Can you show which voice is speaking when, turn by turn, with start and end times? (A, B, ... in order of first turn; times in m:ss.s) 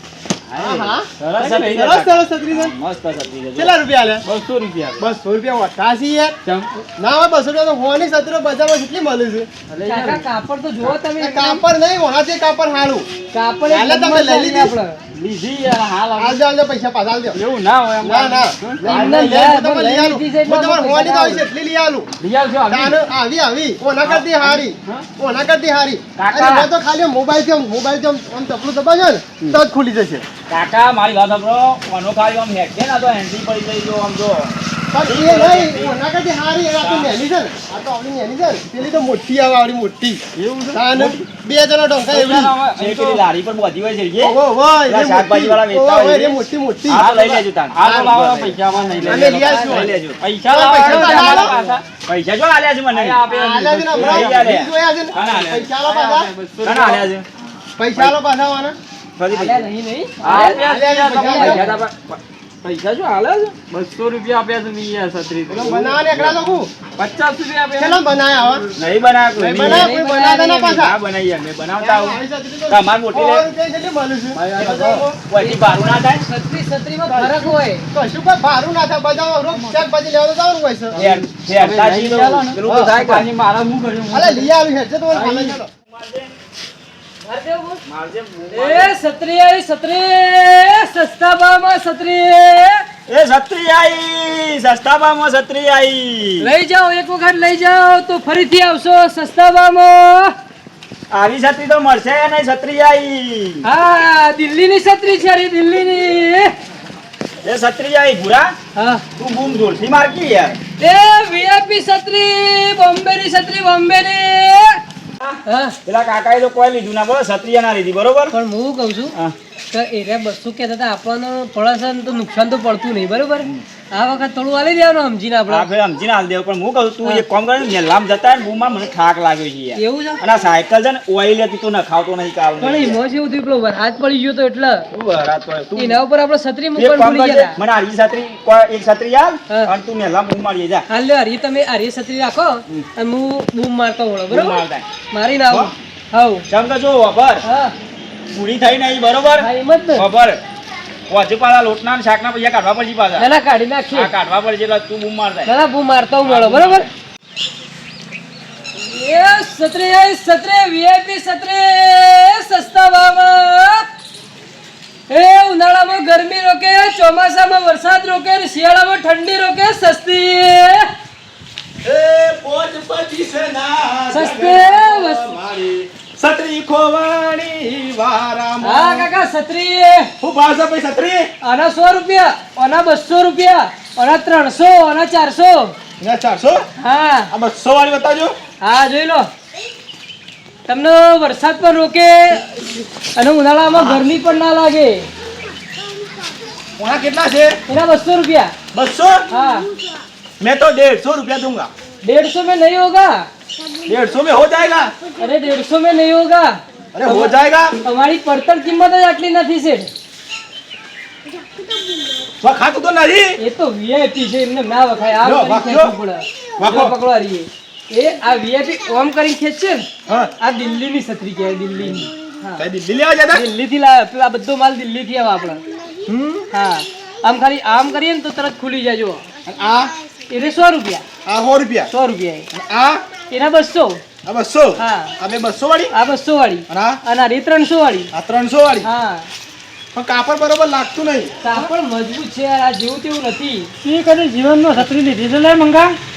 0:00.5-0:03.7 A
0:00.6-0:02.7 B
0:01.2-0:01.8 C
0:03.6-0:04.2 B
0:04.2-0:05.1 C
0:05.0-0:06.4 B
0:07.0-0:09.5 B
0:09.7-0:10.2 C
0:09.8-0:11.6 D
0:11.2-0:13.1 B
0:13.3-0:15.0 D
0:13.7-0:14.7 B
0:15.1-0:16.4 C
0:16.1-0:17.4 B
0:17.3-0:19.0 C
0:18.0-0:22.1 B
0:18.8-0:21.4 D
0:22.2-0:23.0 C
0:22.7-0:30.2 B
0:24.0-0:25.0 C
0:26.2-0:26.7 A
0:30.5-0:36.0 A
0:34.9-0:42.6 B
0:36.8-0:37.2 A
0:40.3-0:41.1 C
0:42.1-0:43.2 C
0:42.6-0:48.4 A
0:44.2-0:47.0 B
0:46.9-0:49.6 C
0:47.8-0:51.5 B
0:49.0-0:50.2 A
0:49.4-0:49.9 D
0:50.2-0:51.8 C
0:50.9-0:53.2 A
0:52.9-0:54.5 C
0:53.3-0:56.3 B
0:53.9-0:55.7 A
0:55.2-0:57.1 C
0:56.6-0:57.2 A
0:57.8-0:58.8 B
0:59.2-0:59.6 A
0:59.3-1:00.6 D
1:00.2-1:01.8 C
1:00.2-1:03.5 A
1:00.6-1:01.6 B
1:01.2-1:01.8 D
1:03.7-1:06.4 C
1:05.5-1:06.7 B
1:07.0-1:08.0 C
1:07.8-1:08.7 B
1:08.8-1:09.9 A
1:09.3-1:11.0 B
1:09.6-1:10.8 D
1:10.7-1:13.5 A
1:11.8-1:15.0 B
1:14.3-1:15.2 C
1:14.5-1:16.2 A
1:15.4-1:17.8 D
1:17.1-1:21.0 B
1:19.5-1:19.8 C
1:20.9-1:24.5 C
1:21.0-1:23.3 A
1:22.6-1:22.9 B
1:24.1-1:25.7 B
1:25.2-1:25.6 C
1:25.8-1:26.3 A
1:27.2-1:27.8 D
1:27.8-1:29.0 A
1:28.5-1:32.8 D
1:33.1-1:36.5 A
1:36.4-1:40.3 D
1:41.1-1:43.6 A
1:43.6-1:46.5 D
1:47.4-1:48.5 A
1:48.7-1:49.0 D
1:49.2-1:50.6 A
1:50.8-1:54.8 D
1:55.2-1:58.3 A
1:55.4-1:55.8 D
1:58.3-1:59.2 D
1:59.7-2:05.7 D
2:05.5-2:13.0 A
2:09.8-2:10.2 D
2:12.6-2:14.9 D
2:14.9-2:16.0 A
2:15.8-2:17.6 D
2:16.7-2:20.8 A
2:20.9-2:26.4 D
2:24.3-2:24.8 A
2:26.5-2:27.4 A
2:27.4-2:27.7 D
2:28.3-2:30.4 A
2:29.4-2:30.0 D
2:31.1-2:33.2 A
2:33.2-2:34.1 D
2:33.9-2:35.5 A
2:35.5-2:36.9 D
2:36.2-2:36.9 A
2:38.8-2:43.9 D
2:45.1-2:50.9 D
2:51.8-2:59.1 E
2:54.1-2:55.4 D
2:58.6-3:00.1 D
3:00.2-3:01.3 E
3:01.4-3:05.8 D
3:06.0-3:06.7 E
3:06.8-3:07.3 D
3:07.3-3:08.4 E
3:08.6-3:09.3 D
3:10.7-3:15.1 D
3:16.8-3:17.6 E
3:17.7-3:18.5 D
3:18.7-3:19.3 E
3:19.3-3:19.7 D
3:20.4-3:21.7 E
3:22.0-3:23.3 D
3:23.8-3:24.9 E
3:25.2-3:29.9 D
3:26.9-3:27.8 E
3:32.4-3:33.4 E
3:33.4-3:39.8 D
3:35.2-3:35.9 E
3:36.6-3:37.0 E
3:40.1-3:40.3 E
3:40.4-3:42.7 D
3:41.8-3:42.1 E
3:42.6-3:43.4 E
3:43.3-3:49.2 D
3:49.5-3:49.9 E
3:50.3-3:51.0 D
3:51.2-3:51.9 E
3:51.9-3:52.5 D
3:52.5-3:53.0 E
3:53.3-3:54.0 D
3:54.2-3:55.9 E
3:54.8-3:55.2 D
3:55.9-3:58.1 D
3:56.7-3:57.0 E
3:58.1-3:58.9 E
3:58.8-3:59.3 D
3:59.9-4:01.3 E
4:01.4-4:03.7 D
4:03.8-4:05.9 F